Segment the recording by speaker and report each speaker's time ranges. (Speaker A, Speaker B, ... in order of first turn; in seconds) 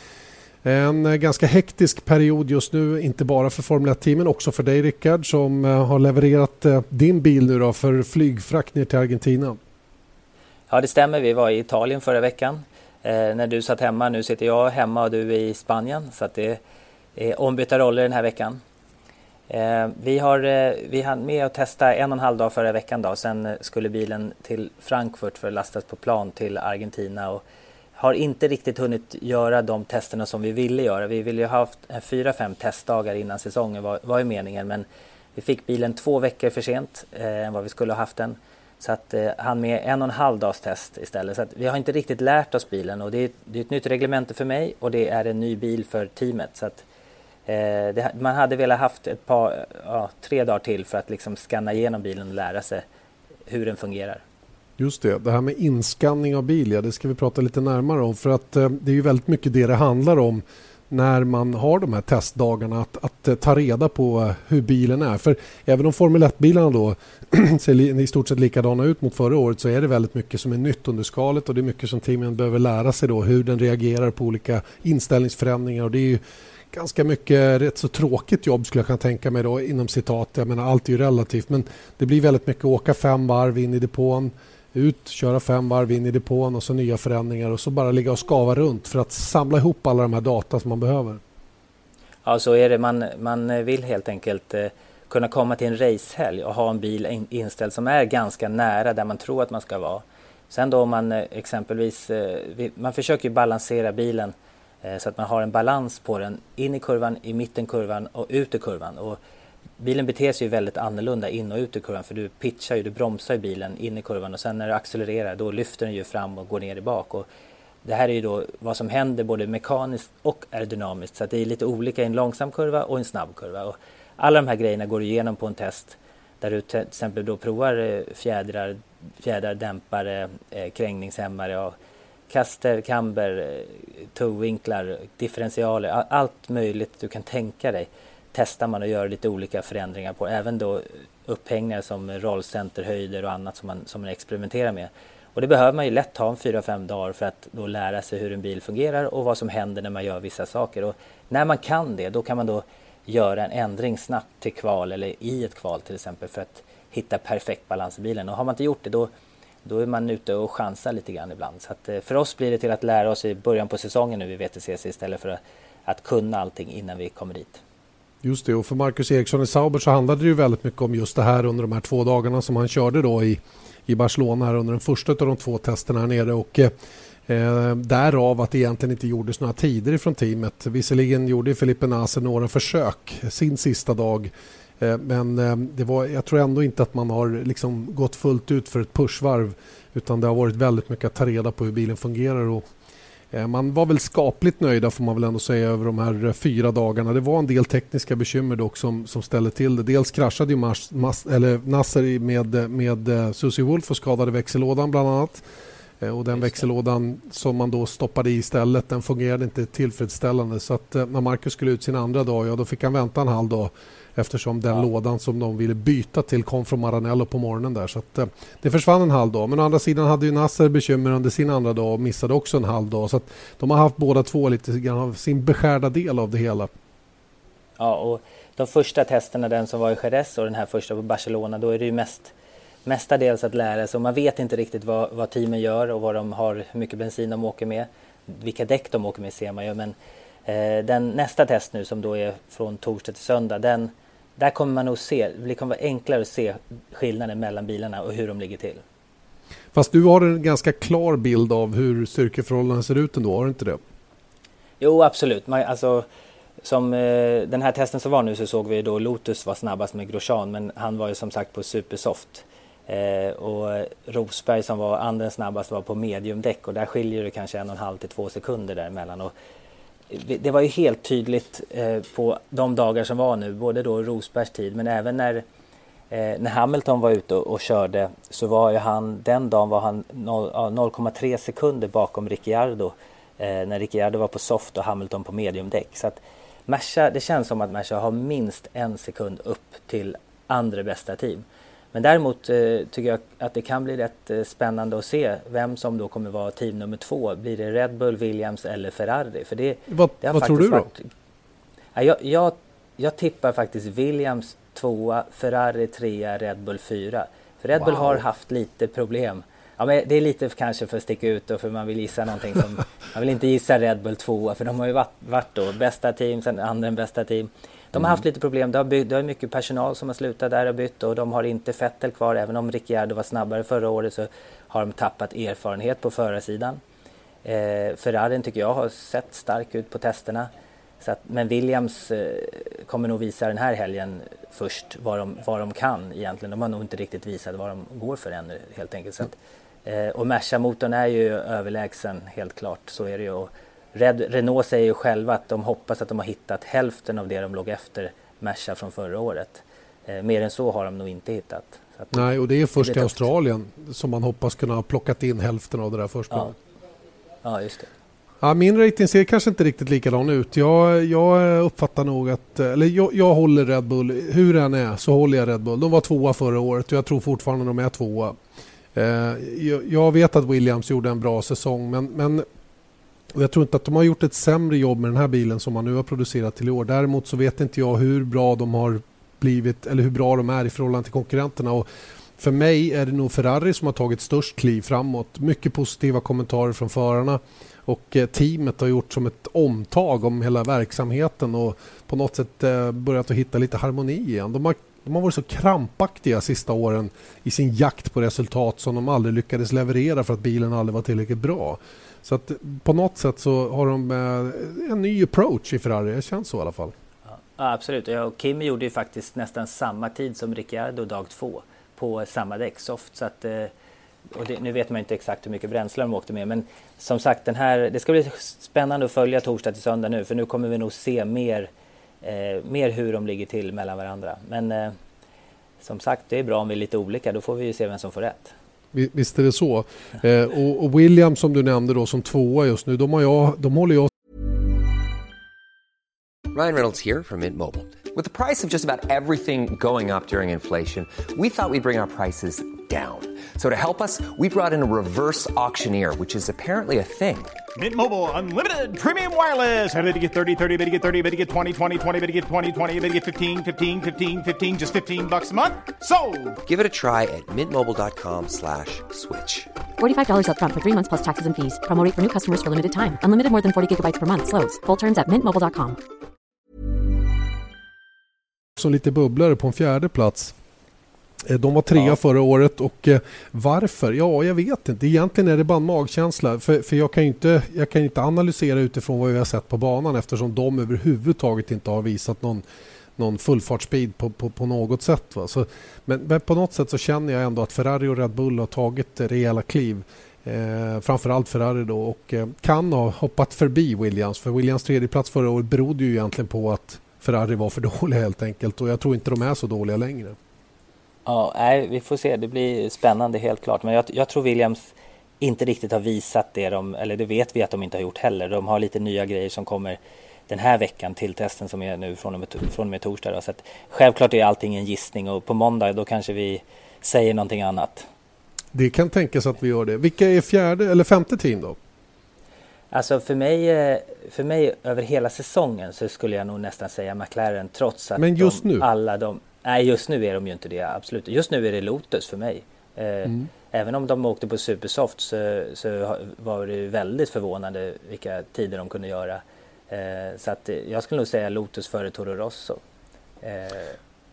Speaker A: 0.6-9.6, 54.8-76.2, 76.7-91.2, 168.2-176.7, 177.3-192.6, 193.3-205.4, 206.0-226.7, 249.7-253.8, 299.9-300.9, 352.1-356.6, 358.4-368.4, 368.9-372.5, 373.3-381.9, 382.4-406.9, 428.9-434.1, 468.8-470.5, 471.4-482.6, 483.2-500.4, 518.7-521.8, 528.2-528.9
Speaker B: 10.7-16.6, 17.2-18.6, 19.5-27.4, 28.0-46.8, 47.5-52.8, 53.5-54.2, 92.2-109.2, 109.8-117.3, 117.8-131.8, 132.3-159.1, 159.7-167.6, 227.8-232.3, 232.9-239.9, 240.5-248.8, 254.8-256.1, 256.6-269.3, 270.1-275.4, 276.1-301.1, 301.9-326.8, 327.4-330.5, 331.0-339.3, 339.9-352.3, 352.8-353.2, 357.4-357.9, 407.3-413.7, 414.3-421.7, 422.2-424.9, 425.8-428.5, 501.3-510.0, 510.5-518.1, 522.9-542.8, 543.4-544.0
Speaker C: 436.5-447.6, 456.6-459.7
Speaker D: 447.8-456.6
Speaker E: 460.0-466.0